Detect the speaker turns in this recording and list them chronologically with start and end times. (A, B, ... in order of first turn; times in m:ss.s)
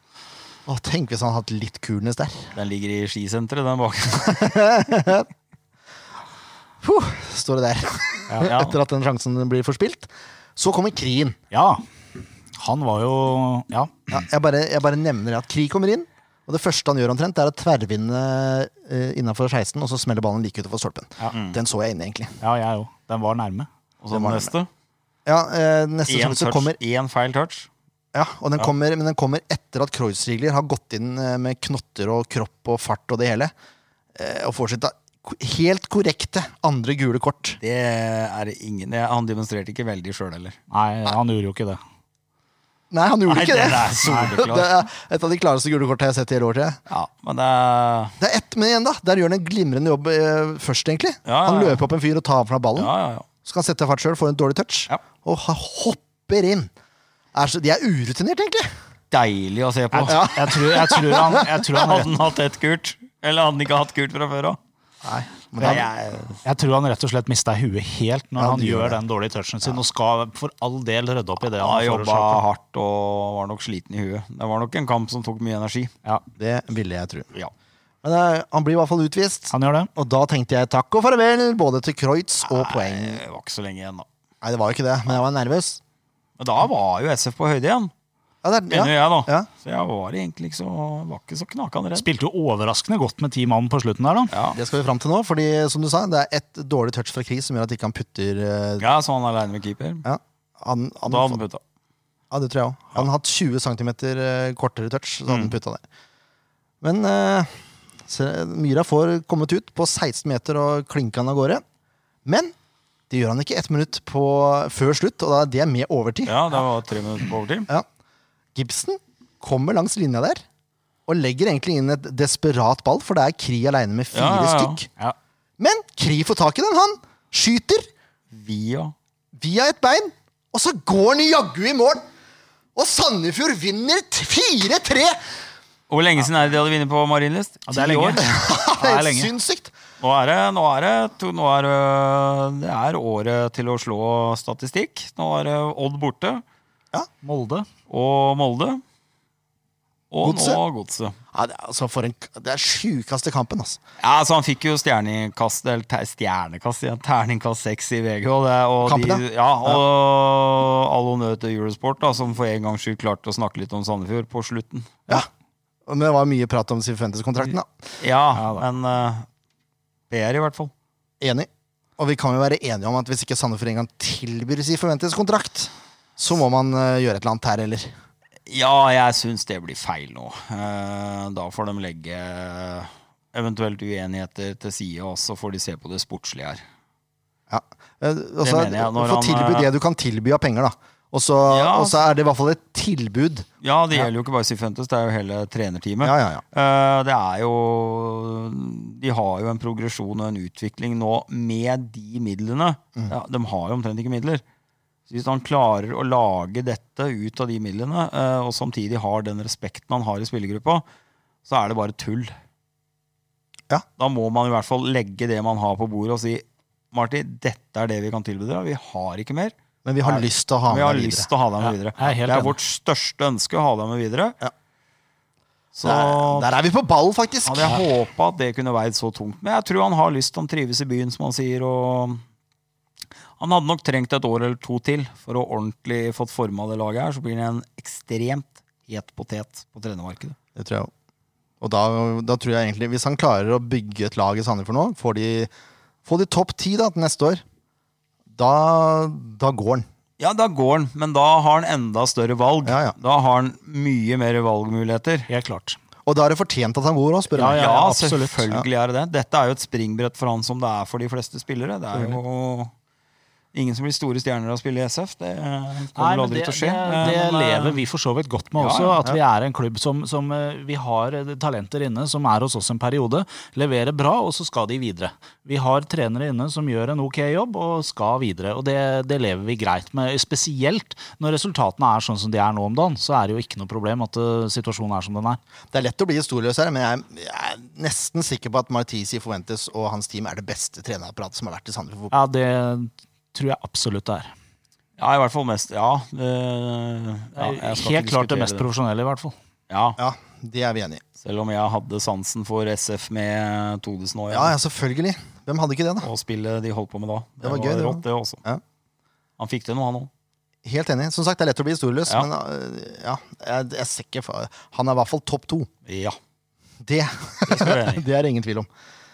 0:00.7-0:02.5 A
0:02.6-0:04.8 B
0:04.3-0:05.3 A
0:06.8-0:11.4 A
0:08.4-0:08.8 B
0:11.5-0:11.8 C
0:12.6-0:14.2 C
0:14.1-0:22.4 A
0:21.3-0:21.6 B
0:22.4-0:23.7 C
0:24.0-0:24.7 B
0:24.1-0:24.5 A
0:25.3-0:26.8 A
0:26.1-0:27.7 B
0:28.1-0:33.5 A
0:34.2-0:37.6 A
0:37.6-0:40.6 B
0:40.7-0:41.8 C
0:42.9-0:46.8 A
0:43.3-0:44.8 B
0:44.0-0:44.3 C
0:46.9-0:48.2 B
0:48.2-0:52.9 A
0:51.3-0:51.8 B
0:52.8-0:53.3 B
0:53.4-0:56.7 A
0:57.3-0:58.7 A
0:59.1-1:00.3 B
0:59.9-1:02.1 C
1:00.1-1:01.4 A
1:01.7-1:04.6 B
1:05.0-1:05.9 A
1:05.6-1:06.4 B
1:06.4-1:12.4 C
1:08.4-1:09.0 A
1:11.5-1:15.9 B
1:16.4-1:17.3 A
1:18.0-1:23.2 A
1:19.5-1:19.9 C
1:22.5-1:24.1 B
1:24.4-1:25.8 A
1:26.4-1:27.9 B
1:28.4-1:29.5 A
1:28.7-1:32.1 B
1:32.0-1:34.3 C
1:34.3-1:34.6 B
1:34.5-1:38.8 A
1:38.8-1:40.0 B
1:40.0-1:41.4 A
1:41.1-1:41.6 B
1:42.3-1:45.8 A
1:45.3-1:45.6 B
1:46.8-1:51.6 A
1:52.2-1:52.5 A
1:53.1-1:56.4 A
1:56.3-1:57.7 B
1:58.6-2:00.4 A
2:01.1-2:04.9 A
2:04.1-2:04.8 B
2:05.6-2:07.9 A
2:08.3-2:08.9 B
2:09.4-2:12.0 A
2:12.8-2:15.2 A
2:15.9-2:18.3 B
2:17.7-2:19.3 C
2:18.2-2:19.7 A
2:20.0-2:26.4 B
2:27.2-2:27.7 C
2:27.9-2:28.8 B
2:30.1-2:31.2 B
2:30.2-2:30.6 A
2:31.3-2:33.8 A
2:34.0-2:45.1 B
2:38.8-2:39.8 A
2:45.9-2:47.7 A
2:48.0-2:49.3 B
2:48.4-2:48.6 C
2:50.1-2:50.7 B
2:51.2-2:57.9 A
2:58.5-3:06.6 B
3:07.5-3:14.1 A
3:08.4-3:09.7 B
3:11.5-3:12.1 B
3:13.6-3:24.4 B
3:16.0-3:16.4 A
3:25.1-3:30.8 B
3:31.5-3:32.3 B
3:34.0-3:44.4 B
3:39.8-3:41.3 A
3:41.6-3:42.6 C
3:45.8-3:46.5 B
3:45.8-3:47.8 A
3:47.5-3:52.2 B
3:53.4-4:00.4 B
4:00.6-4:00.9 A
4:01.6-4:05.5 A
4:06.0-4:07.4 A
4:08.3-4:09.9 A
4:10.2-4:15.3 B
4:12.6-4:13.0 A
4:15.3-4:15.8 C
4:16.1-4:17.6 A
4:17.4-4:18.4 C
4:17.6-4:22.7 B
4:21.9-4:22.2 A
4:23.5-4:27.8 B
4:26.0-4:45.4 C
4:28.6-4:29.0 B
4:45.7-4:52.1 A
4:52.1-4:54.3 C
4:55.0-4:58.7 B
4:57.4-4:59.4 C
4:59.7-5:00.0 B
5:00.0-5:01.0 A
5:01.2-5:04.6 B
5:04.3-5:06.1 A
5:06.0-5:08.4 B
5:07.4-5:08.6 A
5:09.4-5:10.1 B
5:10.6-5:15.7 A
5:15.9-5:16.2 B
5:16.8-5:18.7 A
5:17.5-5:18.0 B